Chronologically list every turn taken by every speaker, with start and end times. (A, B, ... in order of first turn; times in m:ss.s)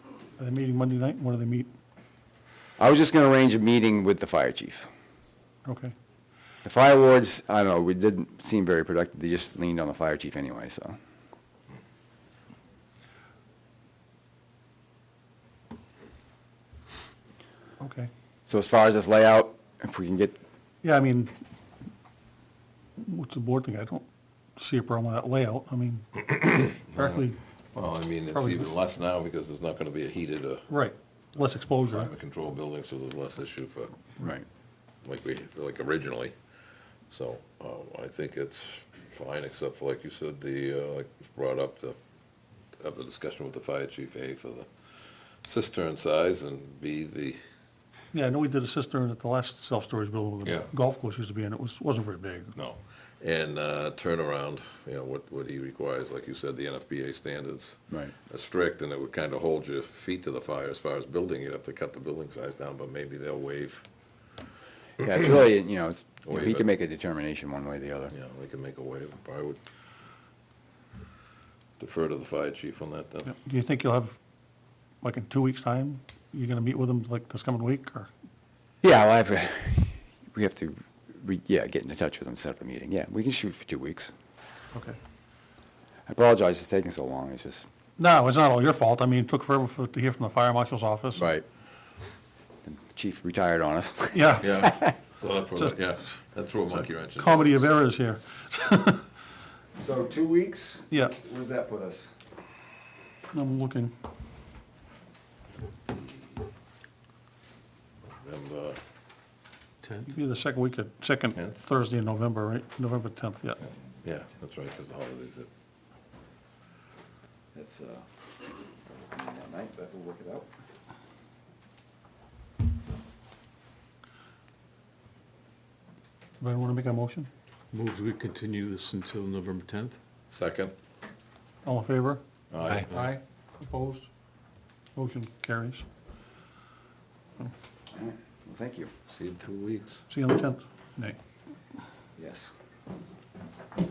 0:00.4-0:01.7 A
0:02.8-0:04.9 B
0:05.7-0:05.9 A
0:06.6-0:11.0 B
0:17.8-0:18.1 A
0:18.5-0:20.4 B
0:20.8-0:21.3 A
0:23.0-0:24.1 A
0:24.6-0:26.1 A
0:26.2-0:27.2 C
0:26.8-0:27.3 D
0:27.7-0:30.7 C
0:30.7-0:32.1 A
0:31.9-0:34.1 C
0:34.2-0:34.5 B
0:35.0-0:36.4 C
0:37.1-0:42.0 C
0:42.8-0:47.4 C
0:48.1-0:52.6 A
0:50.4-0:50.7 C
0:52.6-1:03.9 C
1:05.0-1:08.1 B
1:06.2-1:06.7 C
1:08.1-1:09.6 C
1:11.8-1:13.4 C
1:13.4-1:14.2 A
1:15.0-1:18.1 A
1:18.8-1:24.1 B
1:26.1-1:27.7 B
1:28.0-1:31.2 A
1:31.2-1:31.5 B
1:32.7-1:34.9 B
1:34.4-1:37.6 C
1:37.2-1:39.1 A
1:39.8-1:42.1 B
1:43.3-1:43.9 A
1:48.1-1:48.8 C
1:49.8-1:50.2 D
1:50.1-1:53.6 A
1:51.4-1:51.6 C
1:54.0-1:55.5 C
1:57.5-1:58.1 B
1:58.9-2:00.5 B
2:06.4-2:07.3 A
2:07.7-2:10.0 D
2:10.3-2:10.8 C
2:11.6-2:12.2 A
2:12.5-2:12.9 C
2:12.9-2:14.1 A
2:15.0-2:15.9 A
2:17.9-2:18.9 B
2:19.1-2:20.0 C
2:20.1-2:21.2 A
2:22.2-2:22.5 B